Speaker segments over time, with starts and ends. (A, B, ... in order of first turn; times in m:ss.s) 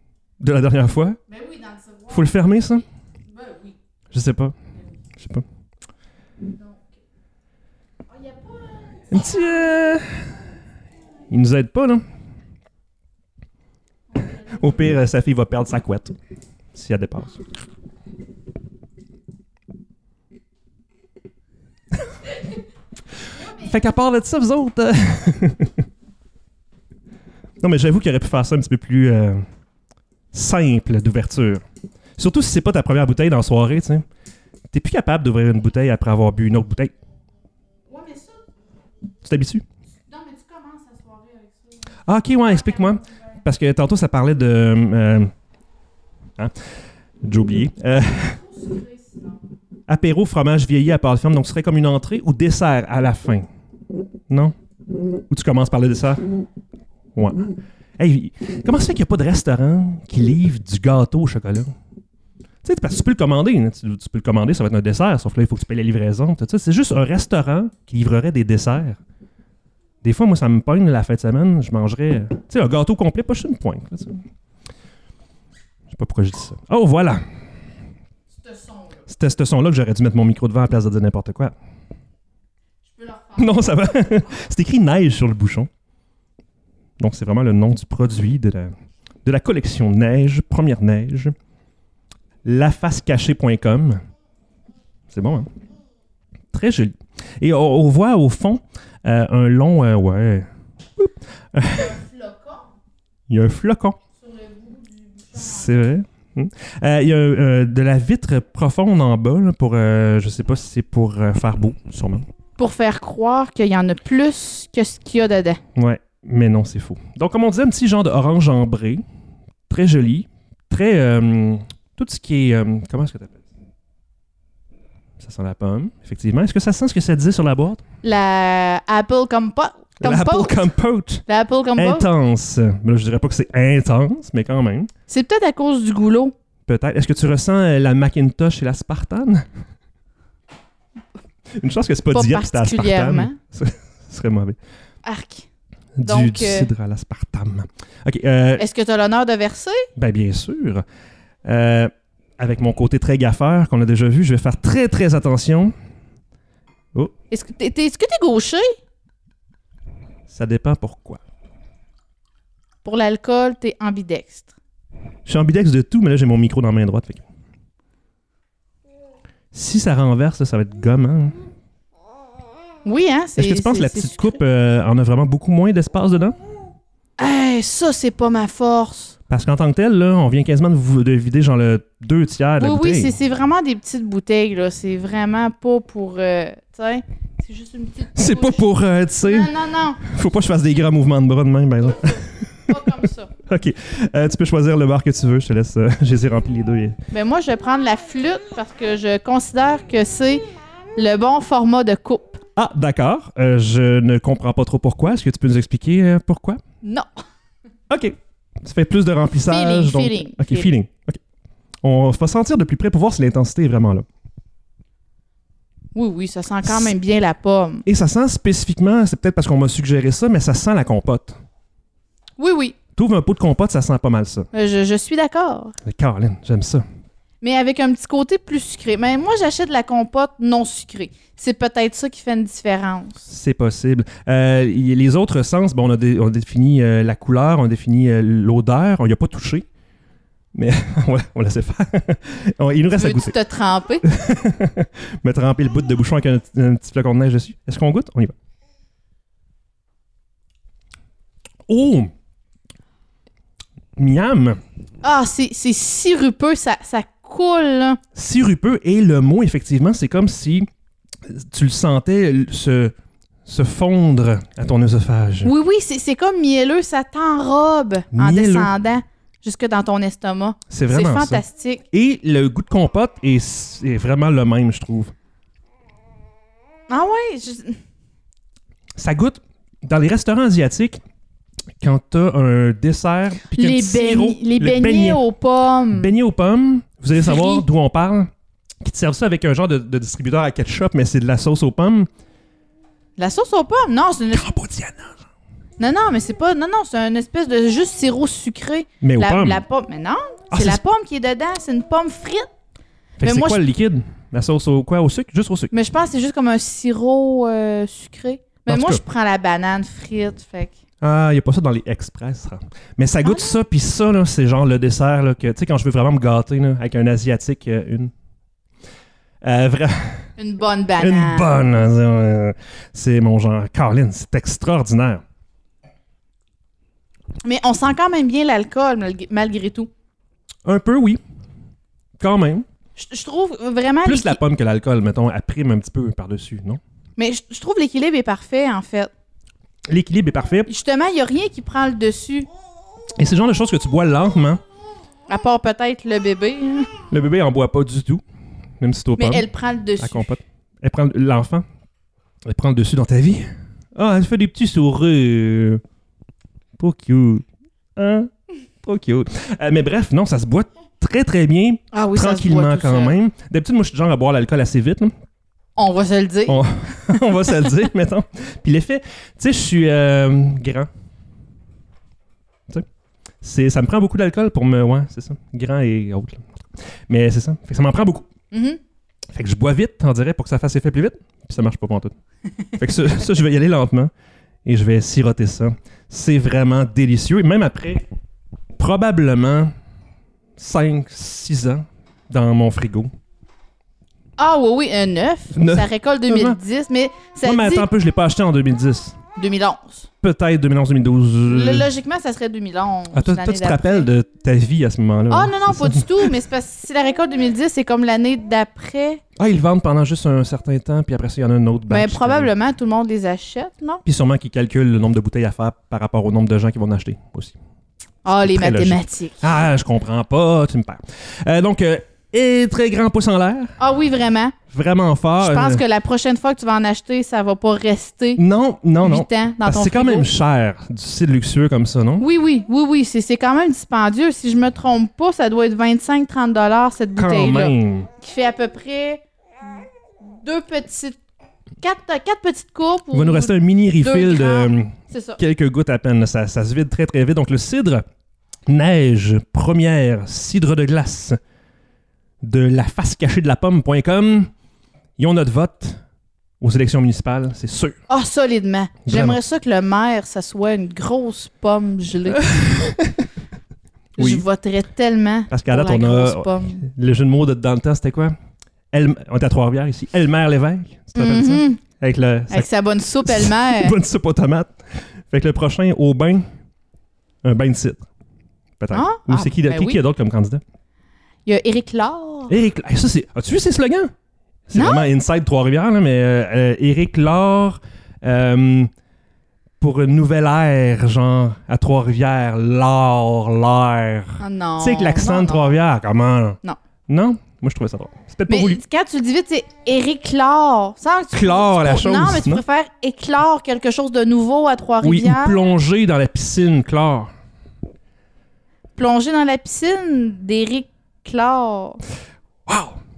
0:00.4-0:01.2 A
0:01.3-0:02.2 B
0:02.1-0:02.8 A
0:03.3-0:03.7 B
0:04.1-0:04.5 A
0:05.2-0:05.4 A
0:06.5-0:06.8 B
0:08.1-0:09.6 B
0:09.1-0:10.2 A
0:11.3-0:12.0 A
0:14.4-0:16.1 A
0:16.7-0:17.4 A
0:23.3-0:25.8 A
0:27.6-0:29.4 A
0:30.3-0:31.6 A
0:32.2-0:34.0 A
0:34.7-0:36.9 A
0:37.9-0:38.4 B
0:39.2-0:39.6 A
0:40.1-0:41.8 B
0:42.1-0:45.3 A
0:42.5-0:43.1 B
0:47.2-0:48.4 A
0:48.1-0:49.4 B
0:49.9-0:53.5 A
0:54.3-0:54.5 A
0:55.3-0:56.2 A
0:57.1-1:01.7 A
1:02.6-1:09.0 A
1:10.0-1:14.2 A
1:15.9-1:17.2 A
1:18.4-1:18.9 B
1:19.1-1:21.5 A
1:22.9-1:23.7 B
1:23.4-1:25.7 A
1:27.0-1:28.7 A
1:29.2-1:31.3 A
1:32.4-1:34.0 A
1:35.1-1:35.5 A
1:36.5-1:42.0 A
1:41.7-1:42.7 B
1:43.3-1:44.0 A
1:44.2-1:45.7 B
1:45.3-1:52.2 A
1:52.6-1:55.6 B
1:55.8-1:59.0 A
1:59.7-2:03.4 A
2:05.2-2:07.8 A
2:08.0-2:10.6 B
2:10.0-2:11.2 A
2:11.3-2:12.1 B
2:11.8-2:14.9 A
2:15.1-2:16.3 B
2:16.7-2:19.4 A
2:21.5-2:24.6 A
2:22.1-2:23.4 B
2:25.0-2:25.5 B
2:26.0-2:28.6 A
2:26.0-2:26.7 B
2:28.6-2:29.9 B
2:30.0-2:30.8 A
2:31.4-2:35.7 A
2:37.3-2:38.7 B
2:40.3-2:41.2 A
2:42.8-2:44.5 B
2:45.2-2:47.2 A
2:49.5-2:51.4 A
2:52.8-2:54.3 B
2:53.4-2:56.4 A
2:57.2-2:59.1 B
2:59.3-3:03.1 A
3:02.6-3:08.6 B
3:08.1-3:12.9 A
3:09.2-3:10.0 B
3:11.8-3:13.3 B
3:13.5-3:17.0 A
3:17.1-3:20.4 B
3:21.0-3:22.4 B
3:22.6-3:26.6 A
3:26.8-3:27.1 B
3:27.9-3:31.2 A
3:29.5-3:30.7 B
3:31.8-3:34.0 A
3:35.9-3:37.8 B
3:37.8-3:41.4 A
3:42.4-3:42.8 B
3:43.0-3:44.5 A
3:44.5-3:45.8 B
3:45.8-3:46.8 A
3:47.4-3:53.2 B
3:53.3-3:59.6 A
4:00.5-4:03.3 A
4:02.9-4:04.0 B
4:04.0-4:08.3 A
4:11.7-4:12.1 A
4:14.0-4:14.6 A
4:15.0-4:18.0 B
4:18.1-4:20.7 A
4:21.2-4:22.9 A
4:23.4-4:25.5 A
4:25.4-4:31.8 B
4:28.1-4:28.7 A
4:30.7-4:35.1 A
4:36.9-4:37.8 B
4:39.0-4:41.0 A
4:41.8-4:45.2 A
4:43.5-4:46.1 B
4:45.9-4:48.3 A
4:47.2-4:47.6 B
4:48.8-4:52.1 A
4:53.2-4:54.5 B
4:54.3-4:55.2 A
4:55.8-5:02.5 B
4:59.0-4:59.6 A
5:00.5-5:00.8 A
5:03.2-5:05.7 A
5:03.2-5:03.6 B
5:05.7-5:10.8 B
5:08.7-5:09.0 A
5:11.0-5:18.1 A
5:13.2-5:13.6 B
5:19.4-5:20.2 A
5:20.4-5:21.7 B
5:21.0-5:25.2 A
5:27.4-5:29.9 B
5:30.6-5:31.2 A
5:32.2-5:32.6 A
5:33.0-5:34.4 B
5:34.0-5:36.8 A
5:37.2-5:39.1 B
5:39.9-5:40.7 A
5:40.7-5:42.5 B
5:43.2-5:44.6 A
5:45.3-5:46.9 B
5:47.1-5:48.2 A
5:48.8-5:49.5 A
5:49.2-5:50.3 B
5:50.0-5:51.6 A
5:52.4-5:55.8 A
5:56.8-5:57.4 A
5:58.0-5:58.3 A
5:58.8-6:05.1 A
6:01.9-6:03.2 B
6:05.8-6:06.6 B
6:06.5-6:10.9 A
6:13.4-6:16.5 A
6:17.1-6:18.3 A
6:18.5-6:18.8 B
6:19.3-6:22.2 A
6:22.8-6:24.1 A
6:24.6-6:28.0 A
6:28.8-6:29.7 A
6:30.6-6:33.1 A
6:34.4-6:37.9 B
6:35.5-6:36.6 A
6:37.4-6:39.2 A
6:39.4-6:40.1 B
6:40.2-6:41.9 A
6:41.5-6:44.1 B
6:43.1-6:46.3 A
6:45.3-6:49.2 B
6:49.4-6:52.5 A
6:51.9-6:54.0 B
6:54.0-6:57.6 A
6:58.2-6:59.5 B
6:58.4-7:03.7 A
7:03.8-7:04.6 B
7:04.7-7:05.8 A
7:05.4-7:08.4 B
7:08.4-7:12.2 A
7:09.0-7:10.3 B
7:12.2-7:19.2 B
7:17.2-7:18.1 A
7:20.4-7:21.2 B
7:21.8-7:25.4 B
7:23.1-7:28.0 A
7:28.7-7:31.4 A
7:32.4-7:34.5 A
7:35.2-7:36.0 A
7:36.6-7:38.0 A
7:38.1-7:42.6 B
7:39.1-7:39.4 A
7:42.3-7:43.2 A
7:44.2-7:46.8 B
7:44.2-7:44.4 A
7:45.5-7:48.3 A
7:48.9-7:52.7 A
7:51.1-7:51.8 B
7:52.5-7:54.0 B
7:53.2-7:56.5 A
7:57.4-7:58.0 A
7:58.8-8:00.6 A
7:58.9-8:00.0 B
8:01.5-8:02.5 B
8:02.5-8:04.1 A
8:04.7-8:08.9 A
8:04.7-8:05.1 B
8:09.8-8:18.8 A
8:14.4-8:15.7 B
8:18.5-8:25.6 B
8:21.3-8:22.6 A
8:25.0-8:27.3 A
8:29.0-8:32.0 B
8:32.7-8:33.0 A